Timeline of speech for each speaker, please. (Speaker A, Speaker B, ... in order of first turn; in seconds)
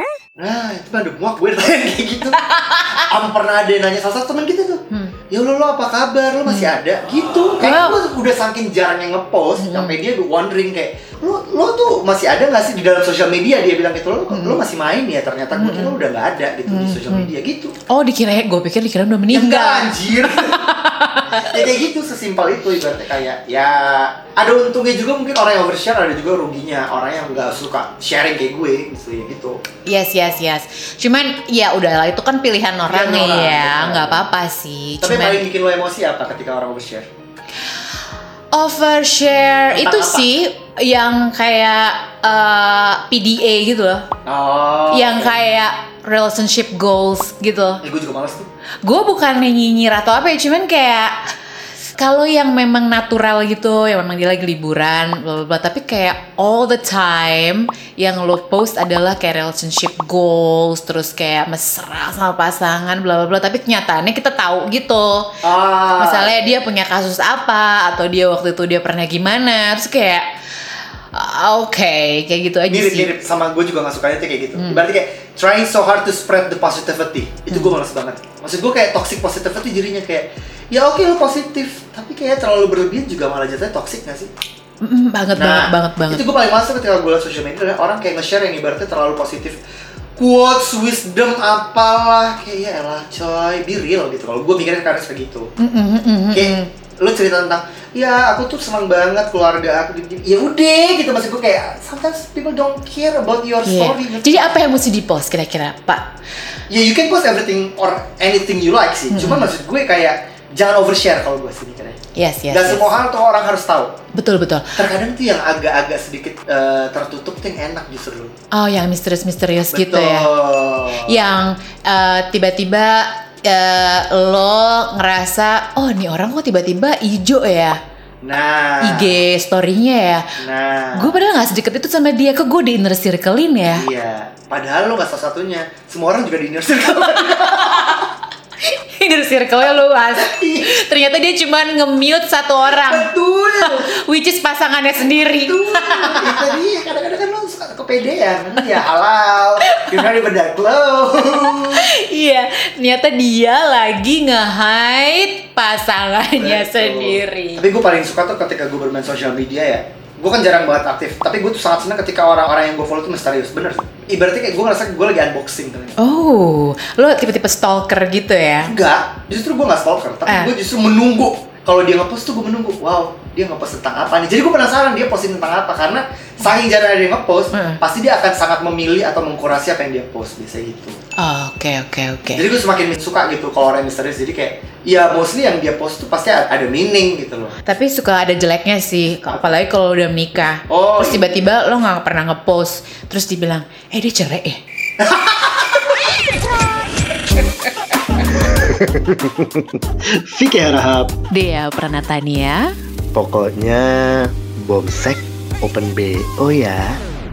Speaker A: 0.4-2.4, 2.9-17.7, 19.3-20.6, 21.3-29.6, 32.9-34.2, 35.0-37.1, 39.7-40.2, 44.2-45.3, 47.8-48.5, 65.4-66.5, 72.7-84.3, 85.3-89.6, 90.2-95.5, 96.3-104.6, 106.7-112.0, 112.5-114.0, 114.8-118.3, 119.7-121.2, 128.2-129.2, 130.4-131.2, 133.8-138.1, 140.1-140.7, 142.7-143.9, 145.2-151.9, 156.4-166.0, 168.6-180.9, 182.3-187.6, 190.7-191.4, 195.0-196.0
Speaker B: 2.4-3.1, 7.6-8.0, 9.6-9.9, 14.3-14.6, 15.5-15.9, 16.7-17.3, 17.9-21.7, 29.9-35.4, 38.5-44.0, 44.9-47.8, 48.8-51.3, 52.0-65.4, 66.0-73.1, 74.5-74.8, 84.8-86.3, 95.6-96.7, 103.6-106.1, 109.1-109.5, 112.2-112.8, 114.1-114.7, 118.5-120.3, 121.0-127.8, 128.8-130.3, 130.9-133.8, 138.6-146.5, 149.7-150.1, 151.4-157.6, 166.0-168.7, 170.2-170.5, 177.5-177.8, 181.2-182.4, 187.7-194.6, 201.3-202.6
Speaker C: 198.5-199.5, 200.0-201.1, 203.1-207.0